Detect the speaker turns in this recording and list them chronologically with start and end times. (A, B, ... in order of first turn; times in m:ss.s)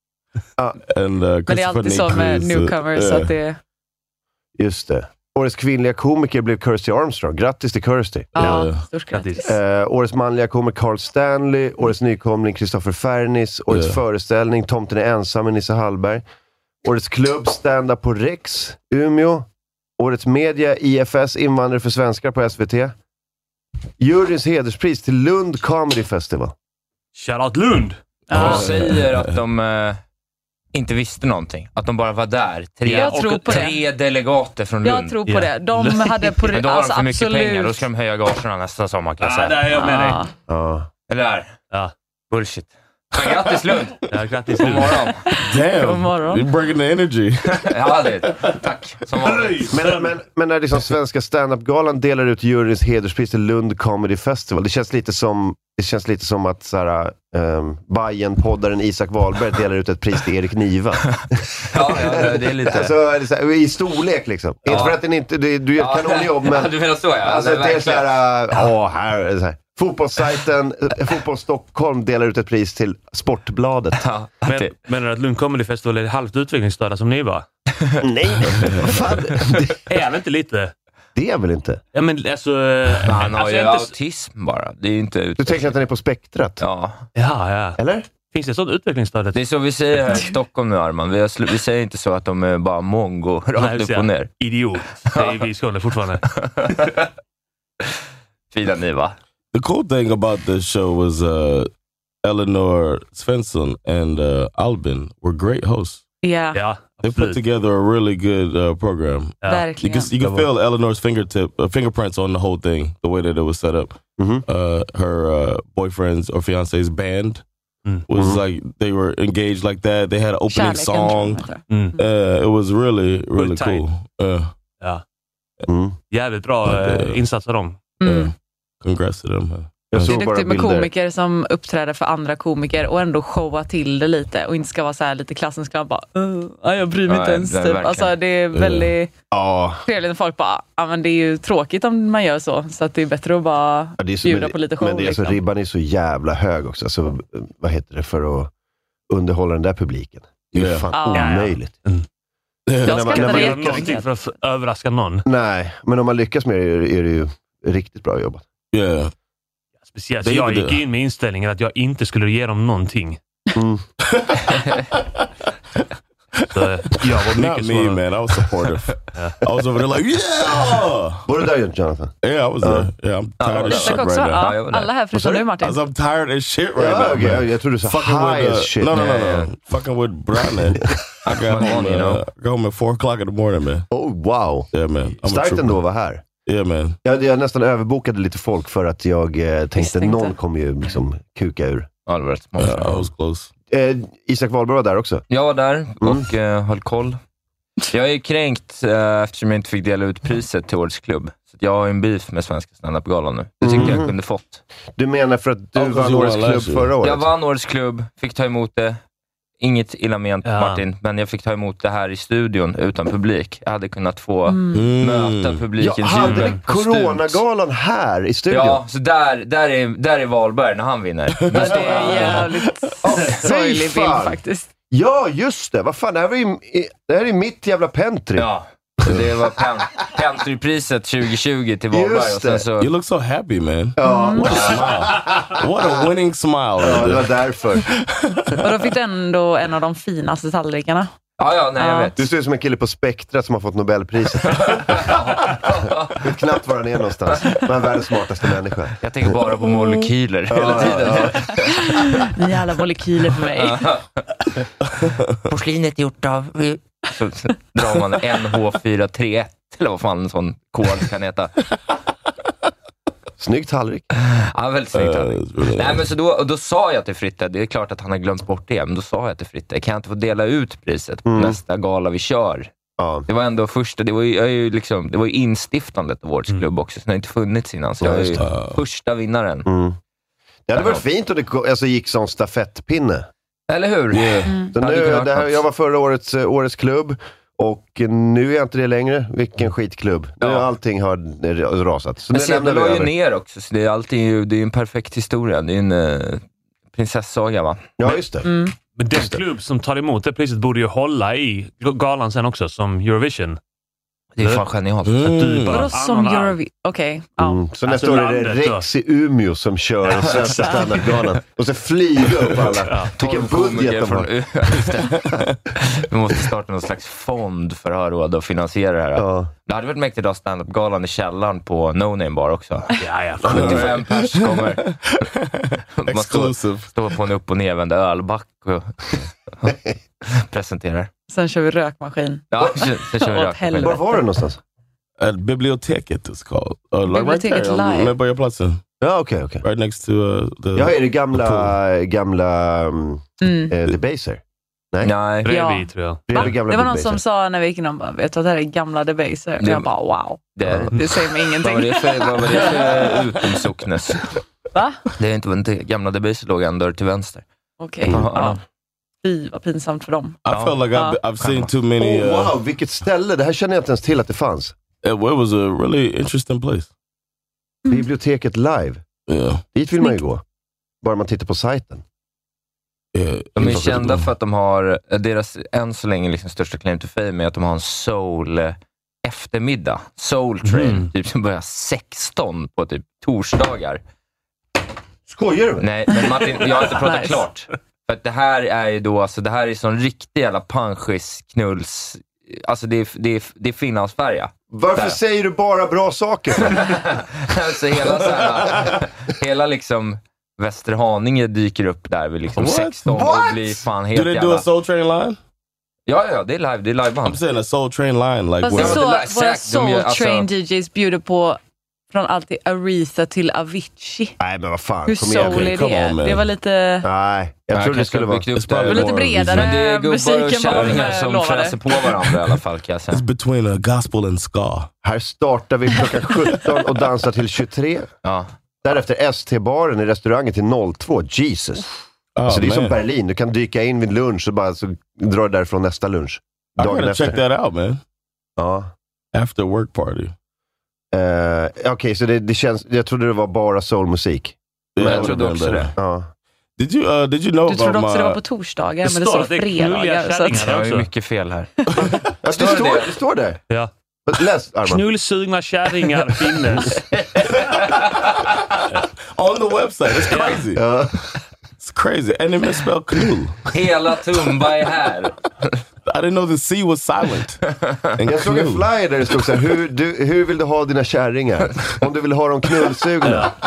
0:00.9-0:03.3 A
0:01.5-0:03.6 B
0:04.6-0:08.6 C
0:08.3-0:09.5 B
0:08.4-0:08.8 A
0:09.1-0:09.5 D
0:09.4-0:16.2 C
0:13.7-0:14.0 A
0:16.8-0:19.5 C
0:20.0-0:22.9 C
0:24.0-0:26.5 C
0:27.1-0:28.6 D
0:28.3-0:28.6 B
0:28.3-0:29.3 A
0:28.3-0:30.0 E
0:30.7-0:35.2 E
0:32.8-0:33.8 D
0:32.9-0:33.8 B
0:34.8-0:37.9 B
0:35.2-0:36.4 D
0:36.5-0:39.6 E
0:39.2-0:40.2 D
0:39.7-0:40.3 B
0:40.5-0:40.9 C
0:41.1-0:41.5 E
0:42.3-0:44.0 E
0:44.1-0:45.1 D
0:44.6-0:45.3 E
0:45.3-0:46.5 B
0:45.4-0:47.7 A
0:47.6-0:49.8 E
0:49.2-0:50.1 D
0:49.7-1:14.0 C
1:01.7-1:02.9 E
1:04.7-1:05.0 E
1:05.8-1:08.2 E
1:14.0-1:14.7 E
1:14.4-1:17.4 D
1:18.0-1:19.8 C
1:19.8-1:20.7 D
1:21.2-1:21.8 C
1:21.9-1:23.9 D
1:23.0-1:25.7 E
1:25.4-1:26.6 C
1:26.6-1:27.0 E
1:27.2-1:29.4 D
1:27.8-1:28.1 C
1:29.3-1:34.3 E
1:33.6-1:36.2 D
1:35.1-1:35.4 E
1:36.3-1:37.0 E
1:38.5-1:39.2 E
1:39.5-1:41.7 A
1:42.2-1:46.0 A
1:46.2-1:46.6 B
1:46.5-1:47.4 D
1:47.0-1:57.4 A
1:49.4-1:50.5 D
1:49.5-1:50.1 B
1:54.2-1:54.4 C
1:58.1-2:01.4 A
1:58.1-1:58.4 C
2:00.5-2:01.6 B
2:01.7-2:02.0 D
2:02.0-2:04.5 A
2:03.3-2:03.8 D
2:05.7-2:06.0 C
2:06.1-2:08.0 D
2:06.6-2:07.2 A
2:08.0-2:08.3 B
2:08.0-2:10.1 A
2:09.9-2:10.9 C
2:10.0-2:19.1 B
2:17.1-2:18.1 E
2:18.5-2:18.9 A
2:19.3-2:19.8 C
2:19.8-2:25.4 B
2:24.0-2:28.5 C
2:29.1-2:31.7 C
2:30.5-2:31.0 A
2:30.9-2:31.4 B
2:31.1-2:32.0 D
2:32.7-2:33.2 A
2:32.8-2:34.0 C
2:32.8-2:34.1 B
2:33.0-2:35.3 D
2:35.2-2:38.5 C
2:38.7-2:39.1 A
2:39.8-2:43.2 D
2:40.2-2:40.8 A
2:43.5-2:43.8 C
2:44.1-2:44.4 A
2:45.0-2:45.2 A
2:46.3-2:51.3 A
2:46.5-2:48.0 D
2:49.1-2:49.4 D
2:51.2-2:52.9 C
2:52.2-2:54.5 A
2:53.4-2:54.9 E
2:53.6-2:55.8 B
2:55.1-2:55.4 C
2:55.6-3:03.9 A
2:56.8-2:59.1 C
2:58.9-2:59.5 E
3:01.2-3:02.2 E
3:03.9-3:04.7 C
3:04.7-3:05.8 A
3:05.2-3:06.2 C
3:06.4-3:07.0 A
3:07.0-3:11.9 C
3:09.8-3:10.3 B
3:12.1-3:13.1 E
3:12.6-3:13.5 A
3:13.7-3:15.2 C
3:15.3-3:17.2 E
3:16.0-3:16.2 C
3:17.9-3:24.6 E
3:23.6-3:24.1 C
3:25.0-3:27.3 C
3:25.8-3:26.9 A
3:27.0-3:29.0 E
3:29.6-3:37.4 E
3:30.4-3:30.8 D
3:34.5-3:34.8 B
3:34.7-3:35.6 A
3:35.8-3:38.8 C
3:36.2-3:36.6 D
3:38.5-3:42.4 E
3:41.5-3:44.7 B
3:42.4-3:42.7 A
3:43.0-3:44.4 C
3:44.9-3:48.5 C
3:48.4-3:52.9 E
3:51.9-3:52.6 C
3:52.8-3:58.6 A
3:54.0-3:56.1 C
3:54.0-3:54.5 B
3:56.8-3:57.9 C
3:58.6-4:01.1 B
4:01.4-4:02.1 E
4:01.8-4:02.1 B
4:02.2-4:05.0 C
4:04.5-4:06.3 E
4:06.2-4:08.9 C
4:09.0-4:11.8 E
4:10.5-4:11.5 C
4:11.8-4:13.8 B
4:13.5-4:14.0 E
4:15.5-4:21.5 E
4:23.4-4:24.0 C
4:24.2-4:32.7 E
4:24.9-4:26.1 A
4:31.2-4:31.6 C
4:33.0-4:33.3 C
4:33.3-4:39.7 E
4:38.0-4:38.4 C
4:38.4-4:38.8 A
4:39.7-4:40.0 C
4:40.7-4:43.3 C
4:40.7-4:41.0 E
4:43.7-4:45.6 E
4:44.1-4:44.6 A
4:44.7-4:53.1 C
4:50.4-4:50.7 E
4:52.3-4:57.9 E
4:58.0-4:58.5 C
4:58.4-4:58.7 B
4:58.9-5:03.6 D
4:59.1-4:59.4 C
5:04.4-5:05.3 E
5:04.4-5:04.6 D
5:05.0-5:05.9 A
5:05.2-5:06.6 D
5:05.6-5:07.6 B
5:07.4-5:14.3 C
5:07.8-5:08.9 D
5:12.8-5:13.1 D
5:13.2-5:15.3 E
5:15.8-5:22.9 E
5:19.1-5:19.5 C
5:23.0-5:23.9 D
5:23.4-5:26.9 A
5:23.4-5:24.8 E
5:26.0-5:31.1 E
5:31.3-5:34.2 B
5:32.5-5:34.0 E
5:33.8-5:34.6 C
5:35.2-5:38.8 A
5:37.1-5:38.1 B
5:39.0-5:39.6 C
5:39.6-5:41.7 A
5:40.7-5:45.1 C
5:43.4-5:43.7 B
5:45.0-5:45.5 E
5:45.4-5:46.6 D
5:45.4-5:52.9 B
5:46.3-5:47.2 C
5:49.6-5:49.9 E
5:50.6-5:51.1 E
5:51.6-5:54.3 E
5:54.7-5:55.0 B
5:55.2-5:57.4 E
5:57.8-5:58.6 B
5:58.0-5:58.6 E
5:59.2-6:00.4 B
6:00.4-6:02.5 A
6:00.5-6:00.8 E
6:00.9-6:01.2 B
6:01.4-6:01.7 E
6:02.0-6:04.8 C
6:05.0-6:06.9 A
6:07.9-6:09.0 C
6:09.3-6:09.6 A
6:09.7-6:10.4 C
6:11.0-6:12.0 C
6:13.1-6:14.3 A
6:13.6-6:24.0 E
6:20.6-6:21.1 D
6:25.3-6:25.9 C
6:25.8-6:35.2 E
6:26.1-6:27.4 B
6:34.7-6:37.0 C
6:36.6-6:44.6 E
6:42.5-6:43.2 A
6:43.1-6:43.8 C
6:44.1-6:45.4 A
6:46.1-6:47.4 E
6:47.2-6:49.0 A
6:48.6-6:51.6 B
6:48.8-6:50.5 E
6:52.1-6:54.4 B
6:54.4-6:55.7 C
6:55.1-6:57.0 B
6:55.4-6:56.5 A
6:57.0-6:58.5 C
6:57.7-7:03.2 E
6:58.5-6:59.8 A
6:58.9-7:01.8 B
7:03.1-7:04.9 A
7:05.0-7:08.1 C
7:08.2-7:08.5 E
7:08.8-7:11.9 C
7:12.4-7:13.0 A
7:12.5-7:17.4 C
7:16.8-7:18.0 A
7:18.6-7:18.9 C
7:19.3-7:20.3 A
7:21.1-7:25.3 C
7:24.9-7:25.9 A
7:25.0-7:25.9 E
7:26.0-7:26.3 C
7:26.8-7:28.4 A
7:27.6-7:30.7 B
7:29.0-7:31.1 D
7:30.6-7:33.1 E
7:31.9-7:32.2 A
7:32.4-7:33.6 C
7:34.3-7:35.0 C
7:34.8-7:37.0 D
7:39.3-7:40.8 A
7:40.3-7:40.7 D
7:40.7-7:41.3 C
7:41.8-7:43.7 A
7:43.7-7:45.3 E
7:46.0-7:47.6 A
7:48.2-7:48.8 A
7:48.2-7:53.5 C
7:53.2-7:53.5 D